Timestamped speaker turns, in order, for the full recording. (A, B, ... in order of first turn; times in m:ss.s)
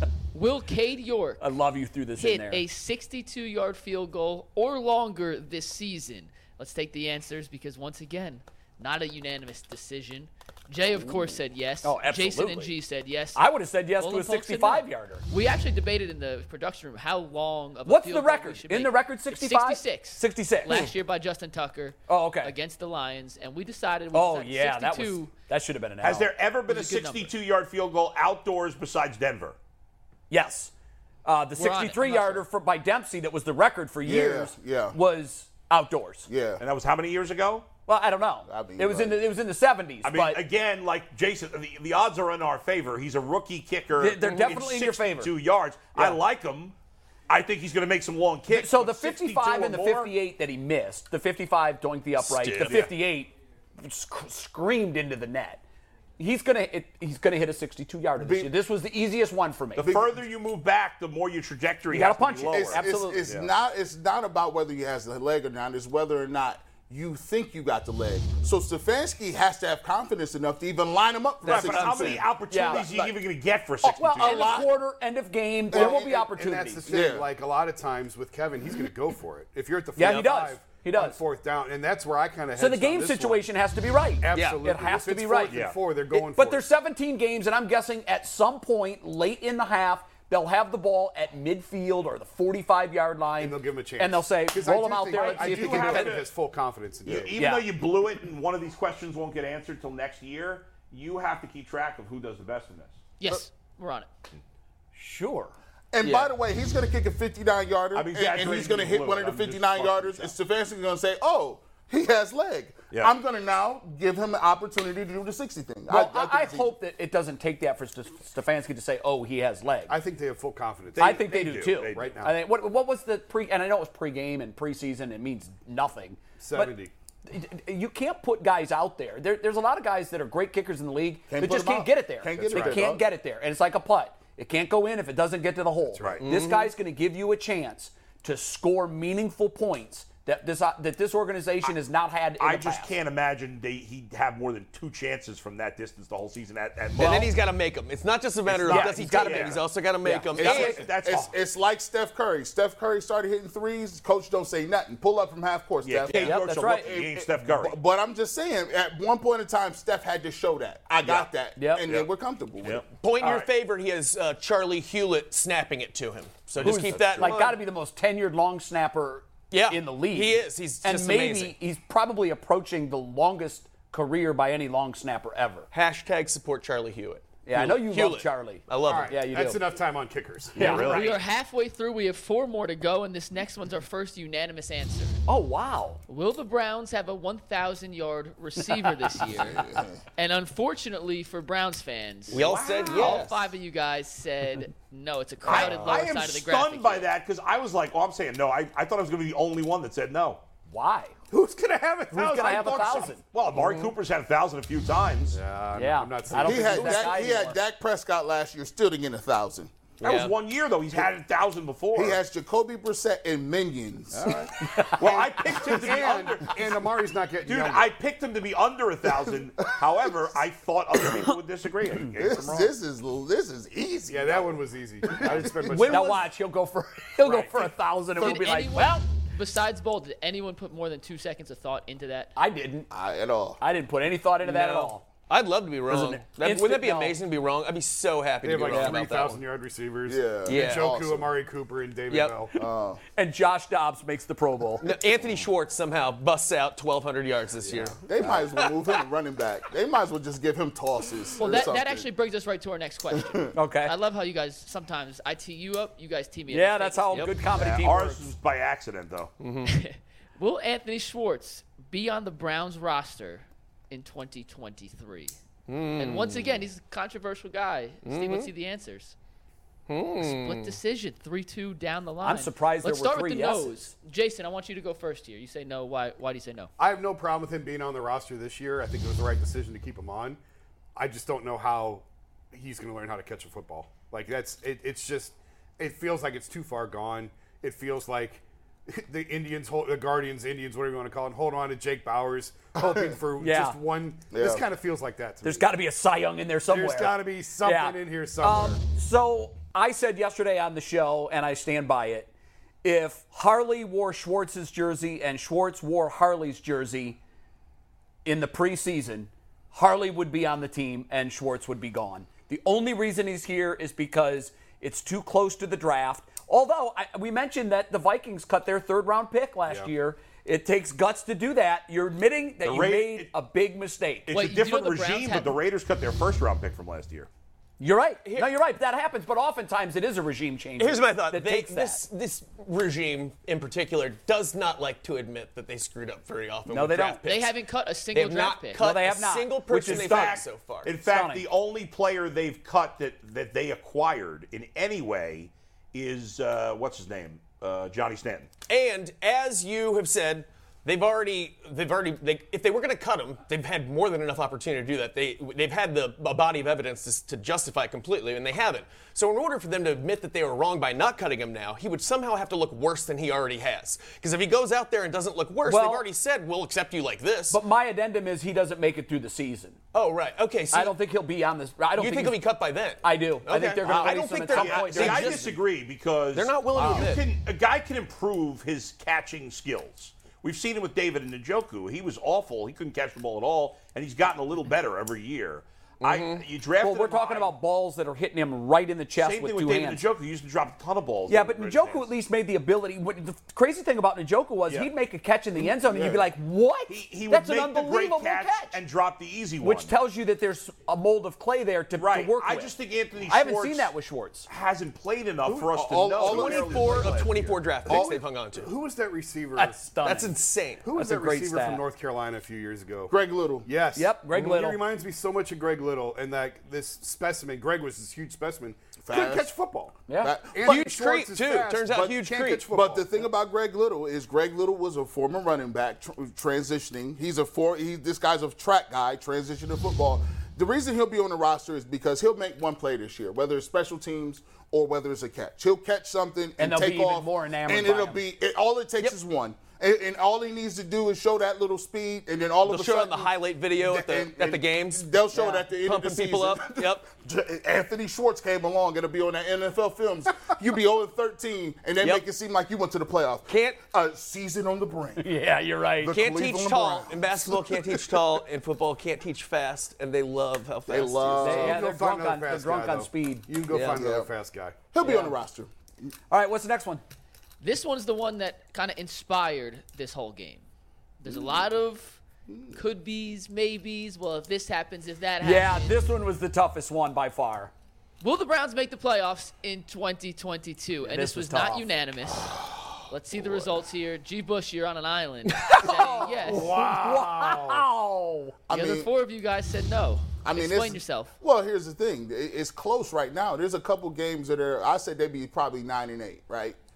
0:00.3-0:01.4 A
0:01.4-0:02.6 B
0:02.2-0:25.3 A
0:11.8-0:12.7 B
0:13.4-0:15.2 B
0:17.8-0:20.8 B
0:22.1-0:22.5 B
0:24.1-0:26.3 B
0:26.0-0:29.6 C
0:26.7-0:27.3 A
0:30.3-0:30.7 B
0:31.2-0:36.3 B
0:31.6-0:32.4 A
0:34.0-0:35.0 D
0:36.3-0:36.6 D
0:36.6-0:37.7 C
0:37.9-0:40.4 B
0:38.5-0:39.2 D
0:40.0-0:46.8 C
0:44.0-0:45.3 B
0:47.3-0:50.1 C
0:48.5-0:55.6 B
0:52.2-0:52.9 E
0:52.6-0:52.9 C
0:56.2-1:00.0 B
0:58.2-0:58.5 D
0:59.8-1:03.5 C
0:59.8-1:00.2 D
1:01.9-1:03.3 B
1:02.7-1:12.3 D
1:11.4-1:14.8 C
1:11.5-1:13.2 B
1:13.8-1:16.9 B
1:14.2-1:14.7 D
1:15.7-1:23.5 F
1:15.7-1:16.2 D
1:16.9-1:17.3 D
1:20.0-1:21.2 B
1:22.6-1:36.2 B
1:24.2-1:26.7 F
1:24.3-1:24.6 E
1:25.5-1:25.8 C
1:33.4-1:37.4 F
1:35.2-1:36.3 C
1:37.1-1:43.0 C
1:37.4-1:37.7 B
1:43.2-1:44.1 A
1:45.0-1:45.5 B
1:45.9-1:56.8 D
1:46.0-1:46.3 E
1:47.9-1:50.3 C
1:55.9-2:00.0 B
1:59.9-2:01.3 F
2:01.0-2:02.2 C
2:01.0-2:06.8 B
2:01.9-2:02.4 F
2:06.4-2:06.9 F
2:07.3-2:22.9 B
2:11.3-2:13.1 D
2:15.9-2:16.2 F
2:16.2-2:16.7 E
2:22.4-2:27.3 C
2:27.0-2:27.3 B
2:27.0-2:30.9 E
2:28.5-2:29.6 C
2:28.7-2:30.8 B
2:30.4-2:31.3 C
2:30.4-2:42.8 D
2:35.8-2:37.8 C
2:36.1-2:36.9 B
2:41.0-2:41.3 C
2:41.6-2:41.9 B
2:42.9-2:47.6 E
2:46.6-2:55.7 B
2:46.6-2:47.2 C
2:49.5-2:51.5 E
2:55.7-2:59.1 E
2:57.4-2:59.6 B
2:58.8-3:00.9 F
3:00.6-3:01.2 B
3:00.6-3:01.2 C
3:00.8-3:05.2 A
3:05.3-3:06.0 B
3:06.1-3:09.6 A
3:09.4-3:10.0 D
3:10.2-3:17.1 A
3:12.3-3:13.3 E
3:12.4-3:13.2 C
3:12.5-3:13.2 B
3:15.4-3:20.4 C
3:20.7-3:21.2 B
3:21.3-3:23.1 F
3:22.1-3:25.4 C
3:22.1-3:23.2 B
3:23.6-3:23.9 E
3:25.3-3:27.5 F
3:25.7-3:27.6 B
3:26.4-3:29.8 D
3:30.0-3:30.4 E
3:30.0-3:32.2 C
3:32.0-3:34.8 D
3:34.3-3:36.7 C
3:34.7-3:35.0 B
3:35.0-3:37.9 F
3:37.4-3:42.7 C
3:42.2-3:46.1 D
3:44.1-3:46.3 F
3:45.4-3:49.0 B
3:48.2-3:52.3 A
3:52.4-3:52.9 B
3:52.9-3:53.6 D
3:53.6-3:55.0 B
3:54.4-3:59.4 E
3:55.9-3:57.2 B
3:58.4-4:02.6 F
3:58.7-3:59.0 B
4:00.1-4:01.3 D
4:00.5-4:00.9 E
4:02.1-4:02.4 E
4:02.6-4:03.0 D
4:03.2-4:04.9 B
4:04.8-4:08.0 E
4:08.0-4:12.1 D
4:11.4-4:17.4 A
4:13.6-4:13.9 B
4:16.5-4:18.2 B
4:17.5-4:19.3 C
4:19.4-4:19.7 E
4:19.6-4:25.4 A
4:25.7-4:26.6 E
4:26.0-4:29.2 A
4:28.0-4:28.5 E
4:29.9-4:30.8 E
4:30.2-4:36.7 A
4:32.2-4:33.9 B
4:36.8-4:40.4 F
4:41.0-4:55.7 F
4:53.4-4:53.8 B
4:54.3-4:54.7 D
4:55.4-5:02.3 B
4:56.7-4:58.8 F
5:02.8-5:07.2 B
5:08.2-5:24.3 B
5:22.6-5:23.3 C
5:24.3-5:27.3 C
5:24.3-5:25.6 A
5:27.8-5:32.0 B
5:28.2-5:28.5 E
5:30.8-5:37.6 E
5:36.7-5:37.2 B
5:37.3-5:38.8 A
5:38.1-5:41.0 E
5:38.8-5:40.5 B
5:39.8-5:48.5 C
5:41.0-5:41.5 B
5:48.7-6:07.6 E
6:05.7-6:06.1 B
6:07.5-6:09.8 B
6:09.9-6:11.0 E
6:10.7-6:12.4 B
6:11.9-6:15.6 E
6:13.0-6:15.5 B
6:13.9-6:27.5 C
6:16.3-6:17.2 E
6:16.8-6:17.1 B
6:26.0-6:26.4 E
6:26.8-6:30.0 B
6:29.2-6:32.1 C
6:31.3-6:38.8 B
6:35.6-6:36.2 D
6:36.9-6:39.9 C
6:39.6-6:44.5 B
6:42.0-6:43.9 C
6:44.5-6:47.7 C
6:45.5-6:47.3 D
6:46.2-6:48.7 E
6:47.9-6:50.0 F
6:49.6-6:50.3 B
6:50.0-6:50.9 E
6:50.8-6:53.1 F
6:50.9-6:51.8 B
6:53.1-6:53.7 D
6:53.6-7:00.0 F
6:53.9-6:54.8 B
6:59.0-6:59.5 D
7:00.1-7:00.4 B
7:00.2-7:00.8 D
7:00.5-7:03.3 F
7:00.6-7:02.7 E
7:02.6-7:35.3 D
7:16.6-7:18.2 B
7:22.7-7:25.1 E
7:25.3-7:25.6 B
7:25.7-7:27.0 E
7:33.5-7:33.8 E
7:35.2-7:36.2 B
7:36.0-7:38.3 D
7:36.1-7:41.4 E
7:40.9-7:41.8 D
7:41.4-7:44.8 F
7:41.4-7:43.5 B
7:43.7-7:44.0 E
7:43.9-7:44.3 D
7:44.9-7:45.7 D
7:45.0-7:45.4 B
7:46.3-7:47.0 B
7:47.6-7:50.6 A
7:51.2-7:52.2 A
7:51.3-7:51.6 D
7:52.5-7:52.8 D
7:52.7-7:56.0 A
7:55.4-7:57.7 B
7:58.2-8:06.7 A
8:01.0-8:01.9 B
8:05.6-8:08.6 B
8:06.5-8:07.7 C
8:06.5-8:07.0 F
8:08.7-8:09.1 D
8:08.7-8:11.3 A
8:10.4-8:16.8 D